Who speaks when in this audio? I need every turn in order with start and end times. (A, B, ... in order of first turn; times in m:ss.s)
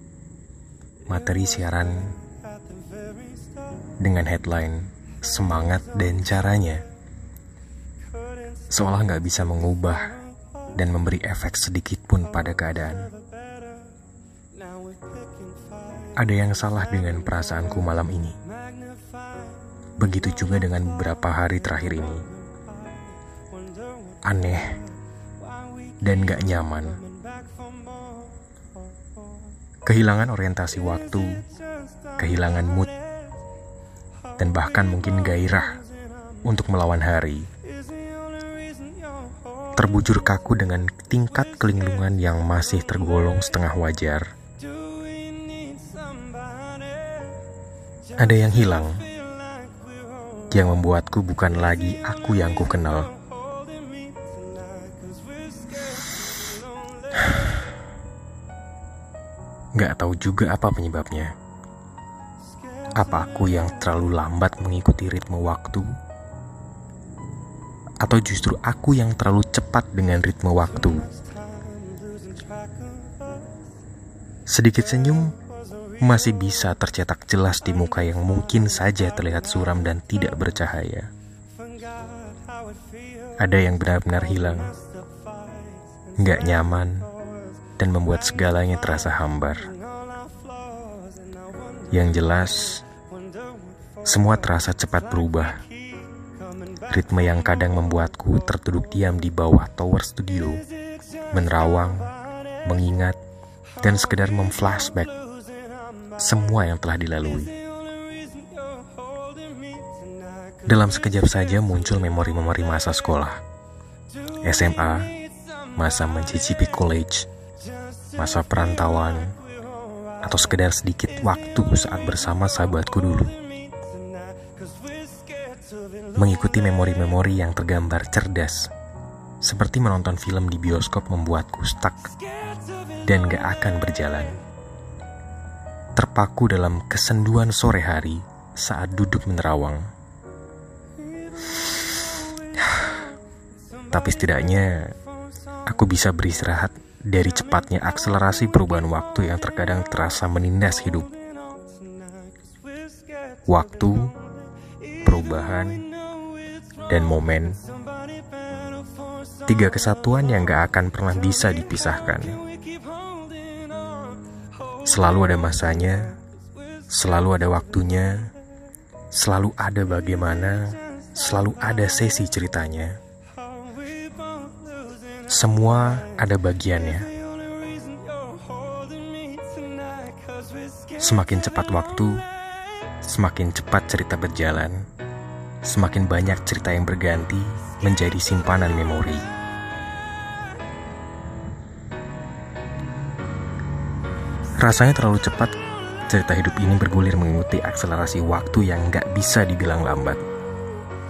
0:01.1-0:02.1 A
0:04.0-0:06.8 A
0:08.7-0:10.2 A
0:10.8-0:13.1 A
0:16.2-0:18.4 A
0:20.0-0:22.2 A
0:24.2-0:24.8 A
0:26.0-0:27.0 A
0:29.8-0:31.4 A
0:32.2-0:32.9 A
0:34.4-0:35.8 A
0:36.4-0:37.5 A
0:39.8-0:44.2 A
0:48.2-0:49.0 A
0:50.5-0:53.1 A
0:59.8-1:01.3 A
1:03.0-1:05.8 A
1:08.0-1:11.1 A
1:14.5-1:15.3 A
1:16.0-1:21.1 A
1:23.4-1:24.7 A
1:26.2-1:27.1 A
1:27.8-1:29.7 A
1:31.9-1:32.8 A
1:34.0-1:35.6 A
1:36.9-1:40.6 A
1:41.3-1:42.1 A
1:42.6-1:43.2 A
1:43.8-1:45.2 A
1:46.2-1:47.6 A
1:50.6-1:53.4 A
1:54.4-1:55.1 A
1:55.8-1:57.3 A
1:58.2-1:59.3 A
2:00.2-2:03.4 A
2:06.2-2:08.7 A
2:09.4-2:12.1 A
2:13.0-2:14.4 A
2:16.0-2:19.8 A
2:22.6-2:22.9 A
2:23.9-2:24.9 A
2:25.7-2:31.1 A
2:33.4-2:34.1 A
2:35.0-2:35.9 A
2:36.9-2:37.6 A
2:39.5-2:42.4 A
2:44.8-2:46.2 A
2:46.9-2:48.3 A
2:49.1-2:53.0 A
2:55.3-2:57.1 A
3:01.0-3:02.2 A
3:03.0-3:04.8 A
3:05.6-3:09.2 A
3:14.6-3:15.5 A
3:16.1-3:20.2 A